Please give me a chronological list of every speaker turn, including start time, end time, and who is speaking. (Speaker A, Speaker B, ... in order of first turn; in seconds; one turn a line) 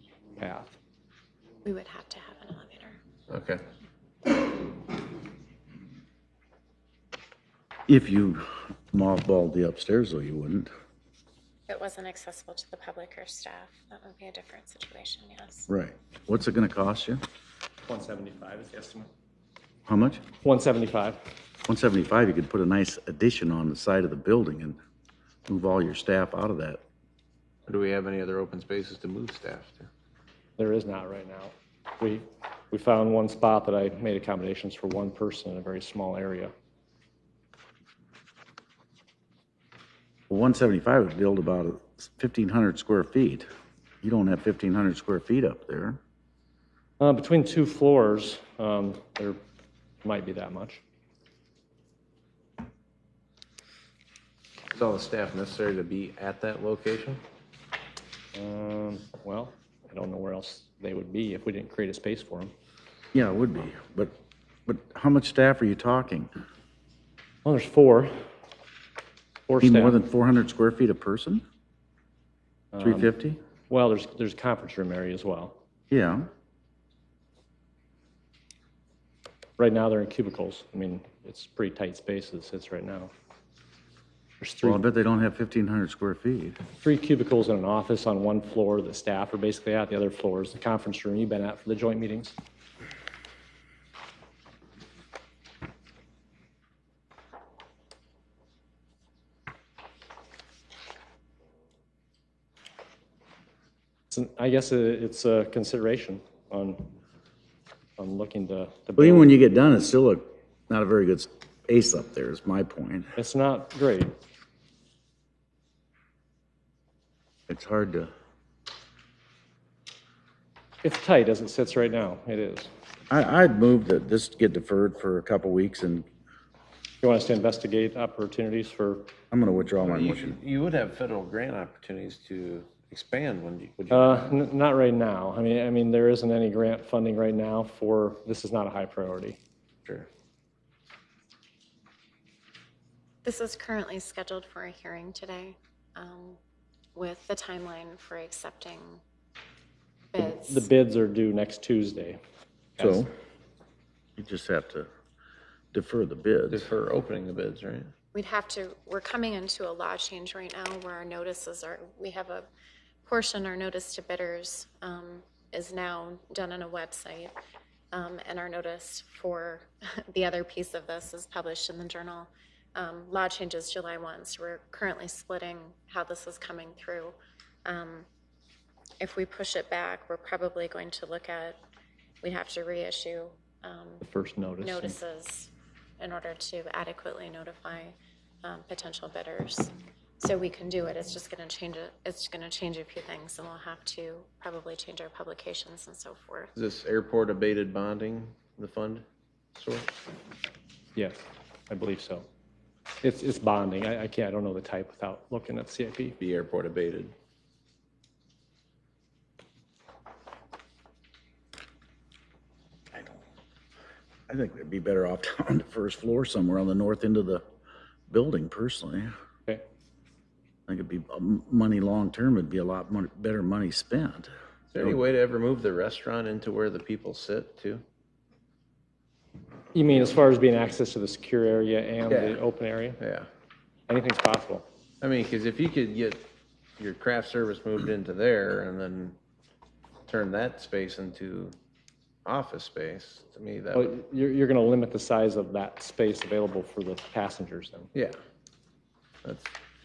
Speaker A: 0.4-0.8
Speaker B: 1.6-3.0
Speaker C: 3.3-3.6
Speaker D: 7.9-10.7
Speaker B: 11.7-15.7
Speaker D: 15.7-17.2
Speaker A: 17.9-19.1
Speaker D: 19.9-20.2
Speaker A: 20.4-21.2
Speaker D: 21.6-24.8
Speaker D: 25.5-26.8
Speaker C: 27.7-29.9
Speaker A: 30.6-36.5
Speaker D: 40.3-43.5
Speaker D: 44.0-46.0
Speaker A: 47.0-49.4
Speaker A: 50.0-50.8
Speaker C: 54.7-57.2
Speaker A: 58.3-62.5
Speaker D: 63.1-64.1
Speaker D: 64.7-66.3
Speaker A: 67.4-68.2
Speaker A: 69.5-70.0
Speaker D: 69.6-71.4
Speaker A: 72.7-73.1
Speaker D: 72.8-73.4
Speaker A: 73.7-75.6
Speaker D: 75.9-76.3
Speaker A: 79.6-83.1
Speaker A: 84.4-84.8
Speaker D: 84.6-86.6
Speaker A: 86.8-92.3
Speaker A: 104.1-106.9
Speaker A: 108.0-109.3
Speaker D: 109.0-113.1
Speaker A: 113.2-114.1
Speaker D: 117.5-118.1
Speaker A: 120.8-122.7
Speaker D: 123.1-126.0
Speaker A: 127.0-129.1
Speaker D: 129.3-130.3
Speaker C: 129.8-134.3
Speaker A: 133.9-139.4
Speaker B: 143.2-146.4
Speaker B: 146.9-149.0
Speaker B: 150.1-150.7
Speaker A: 150.2-152.2
Speaker D: 152.8-153.1
Speaker A: 152.8-153.0
Speaker D: 154.2-154.9
Speaker D: 155.7-156.7
Speaker C: 156.5-157.9
Speaker B: 158.1-162.5
Speaker B: 163.0-167.3
Speaker B: 167.9-178.1
Speaker B: 179.0-181.6
Speaker B: 182.2-184.0
Speaker A: 184.0-185.0
Speaker B: 184.6-196.5
Speaker C: 196.6-199.0
Speaker C: 199.5-199.9
Speaker A: 200.9-202.2
Speaker A: 203.0-206.2
Speaker C: 206.2-207.1
Speaker D: 212.9-213.2
Speaker D: 214.3-217.4
Speaker D: 218.1-219.1
Speaker D: 220.7-224.9
Speaker C: 224.7-227.8
Speaker A: 229.7-233.0
Speaker C: 232.1-232.4
Speaker C: 233.0-233.3
Speaker A: 233.9-234.7
Speaker C: 235.0-239.2
Speaker C: 240.1-241.5
Speaker C: 242.2-243.9
Speaker A: 243.7-247.9
Speaker C: 249.2-249.5